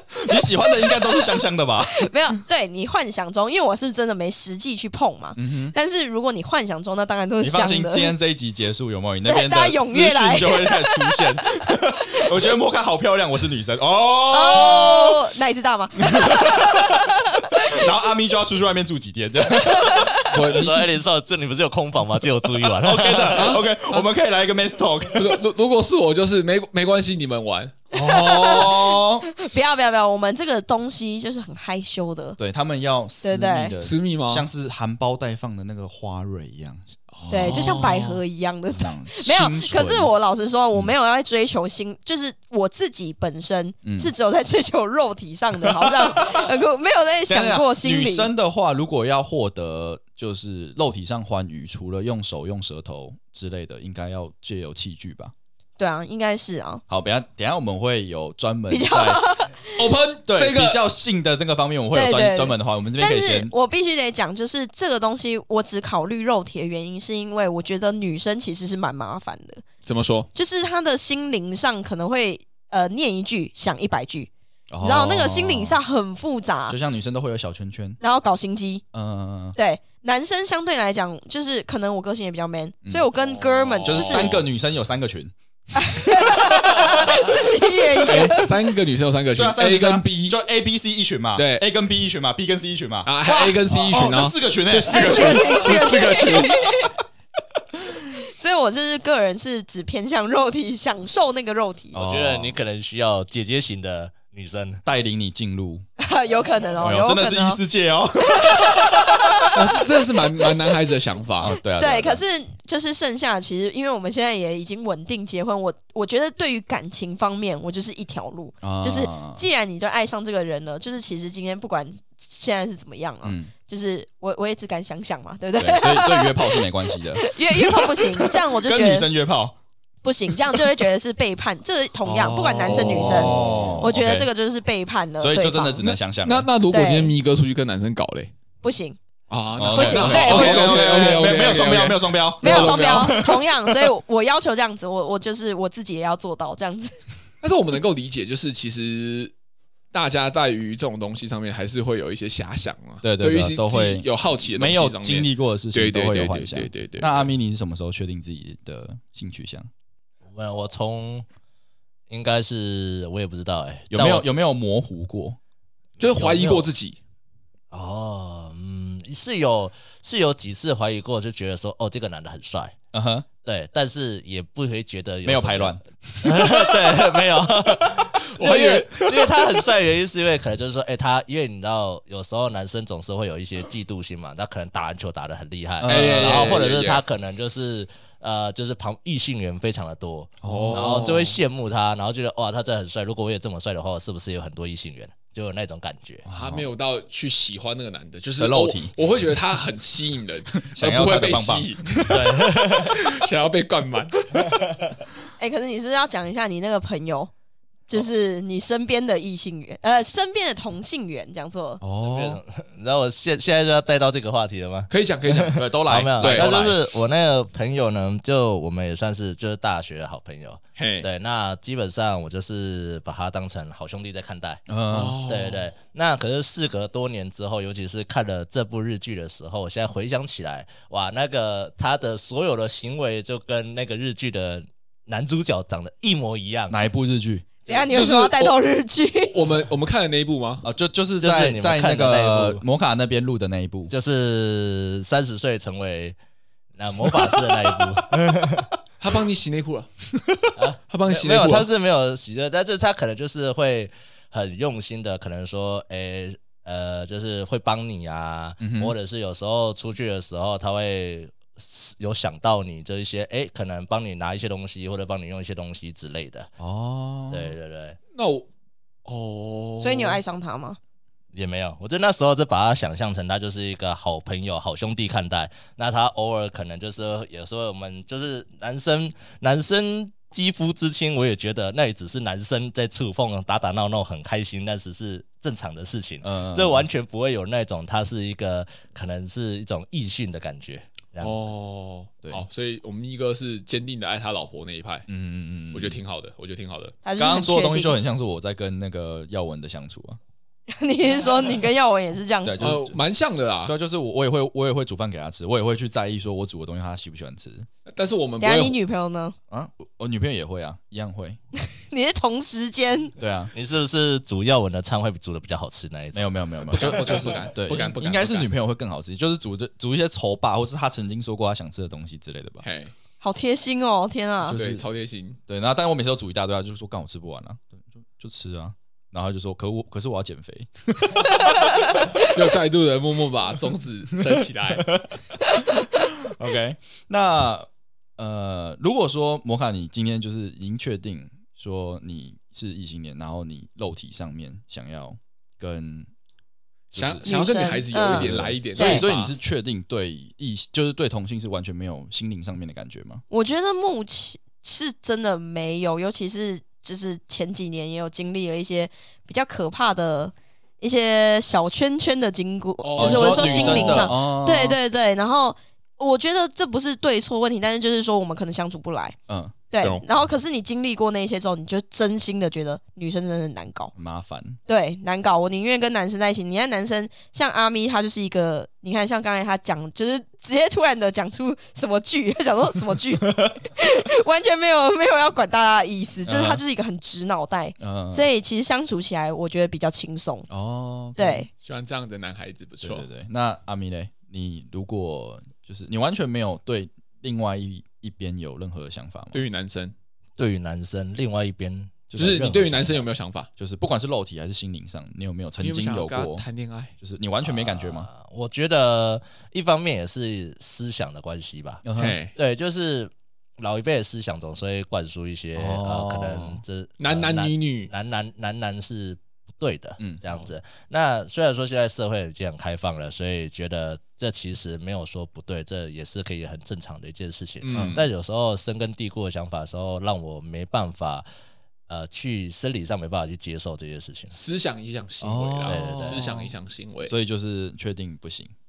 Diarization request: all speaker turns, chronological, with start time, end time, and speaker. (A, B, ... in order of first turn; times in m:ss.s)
0:00.1-0:02.1 A
0:00.8-0:01.3 B
0:01.9-0:08.1 B
0:05.3-0:05.7 A
0:07.4-0:15.2 A
0:09.3-0:11.2 B
0:14.3-0:17.8 B
0:16.1-0:20.2 A
0:19.5-0:20.2 B
0:20.3-0:20.9 C
0:20.3-0:23.5 D
0:22.7-0:25.4 A
0:23.3-0:24.1 C
0:25.1-0:27.8 C
0:27.9-0:29.3 A
0:27.9-0:32.4 B
0:32.4-0:37.9 A
0:33.2-0:33.7 B
0:33.8-0:34.4 C
0:37.1-0:38.2 C
0:37.3-0:48.3 B
0:38.7-0:40.1 A
0:43.8-0:44.1 A
0:45.7-0:46.5 A
0:47.3-0:55.3 A
0:55.8-0:56.8 B
0:56.9-0:59.2 A
0:58.7-1:00.0 B
0:59.8-1:00.9 C
0:59.8-1:03.5 A
1:01.9-1:09.6 B
1:09.8-1:10.3 C
1:10.3-1:14.3 B
1:14.7-1:15.8 A
1:14.8-1:16.8 B
1:16.7-1:18.0 A
1:18.0-1:18.8 B
1:18.9-1:19.6 A
1:19.6-1:24.3 B
1:23.2-1:24.4 C
1:23.8-1:25.3 A
1:25.7-1:28.5 B
1:25.9-1:28.2 A
1:28.0-1:30.4 C
1:29.4-1:33.1 A
1:31.4-1:31.7 C
1:33.0-1:36.7 C
1:33.2-1:33.6 B
1:33.6-1:36.5 A
1:34.9-1:36.9 B
1:38.1-1:42.0 B
1:41.9-1:42.6 A
1:41.9-1:44.8 D
1:44.8-1:45.8 A
1:46.0-1:47.6 B
1:46.8-1:49.4 A
1:48.4-1:49.6 B
1:49.5-1:51.5 C
1:51.4-1:52.2 A
1:51.6-2:09.1 B
1:58.6-1:59.4 A
2:03.2-2:03.5 A
2:05.6-2:09.6 A
2:10.0-2:15.8 B
2:12.0-2:14.3 A
2:12.6-2:13.8 C
2:15.2-2:16.5 A
2:15.8-2:18.3 C
2:16.7-2:17.1 B
2:18.6-2:19.0 B
2:19.3-2:23.3 C
2:19.6-2:23.9 A
2:19.7-2:21.4 B
2:22.4-2:27.0 B
2:27.4-2:29.3 C
2:29.9-2:37.3 C
2:33.0-2:39.7 A
2:40.3-2:41.2 D
2:42.1-2:44.3 D
2:43.9-2:45.4 A
2:46.0-2:46.7 D
2:46.0-2:47.0 C
2:47.7-2:52.8 D
2:52.9-2:53.2 A
2:53.4-3:16.2 D
2:55.2-2:57.0 A
2:58.2-2:59.0 C
3:05.8-3:06.7 A
3:05.8-3:07.0 C
3:10.4-3:10.9 A
3:10.4-3:11.4 C
3:16.2-3:16.6 A
3:16.3-3:22.1 C
3:18.4-3:18.9 A
3:20.7-3:22.5 A
3:22.1-3:23.0 D
3:22.8-3:24.2 C
3:25.4-3:27.3 B
3:27.9-3:31.8 B
3:31.8-3:32.4 A
3:32.0-3:44.6 D
3:34.9-3:36.6 C
3:35.4-3:36.8 A
3:40.8-3:41.1 C
3:44.7-3:45.2 A
3:44.9-3:45.6 C
3:45.2-3:56.8 D
3:56.7-3:57.4 A
3:57.6-3:59.3 B
3:57.9-3:58.5 C
3:59.3-4:00.6 C
4:00.6-4:03.9 A
4:01.2-4:02.6 D
4:03.9-4:06.2 D
4:06.8-4:08.7 D
4:09.0-4:09.9 C
4:10.6-4:26.5 D
4:10.9-4:11.7 C
4:18.6-4:19.0 A
4:26.6-4:27.5 A
4:27.3-4:28.0 D
4:28.1-4:28.5 C
4:29.0-4:30.2 C
4:29.8-4:30.8 B
4:31.3-4:51.4 D
4:46.2-4:46.8 A
4:51.2-4:55.1 C
4:55.1-4:56.0 A
4:55.7-4:57.0 C
4:57.0-4:58.0 B
4:57.2-5:00.2 A
5:00.7-5:02.6 B
5:02.4-5:03.0 A
5:02.6-5:03.7 C
5:03.6-5:07.7 A
5:07.8-5:08.8 C
5:08.4-5:09.4 B
5:09.5-5:11.4 A
5:11.6-5:13.1 B
5:13.2-5:13.5 A
5:13.5-5:17.3 D
5:16.1-5:22.6 A
5:16.7-5:18.5 C
5:22.6-5:22.9 C
5:23.2-5:24.6 B
5:24.4-5:24.8 A
5:24.5-5:25.4 C
5:25.5-5:31.7 A
5:31.4-5:32.2 B
5:32.2-5:35.0 C
5:34.8-5:35.1 A
5:35.5-5:35.8 B
5:36.0-5:46.1 A
5:46.9-5:47.3 A
5:46.9-5:49.3 C
5:47.2-5:49.0 B
5:47.9-5:53.2 A
5:53.3-6:09.2 B
6:02.8-6:04.2 C
6:03.0-6:04.8 A
6:09.3-6:09.5 A
6:09.7-6:13.9 B
6:13.9-6:14.6 A
6:14.7-6:30.5 B
6:23.3-6:23.6 A
6:26.2-6:26.6 A
6:27.8-6:28.3 A
6:30.5-6:31.5 A
6:31.2-6:31.5 B
6:31.6-6:33.0 C
6:32.8-6:39.5 A
6:39.3-6:39.9 C
6:40.4-6:43.0 D
6:42.1-6:42.4 A
6:42.2-6:43.5 C
6:43.6-6:46.4 A
6:45.6-6:46.9 C
6:47.0-6:48.1 A
6:47.4-6:51.8 D
6:51.8-6:52.2 A
6:52.0-6:52.3 C
6:52.3-7:11.2 D
6:55.6-6:56.6 A
6:57.0-6:57.9 C
7:07.6-7:08.0 C
7:07.7-7:08.0 A
7:11.9-7:14.3 D
7:14.3-7:17.1 C
7:15.2-7:16.5 A
7:15.7-7:16.4 D
7:17.1-7:18.5 A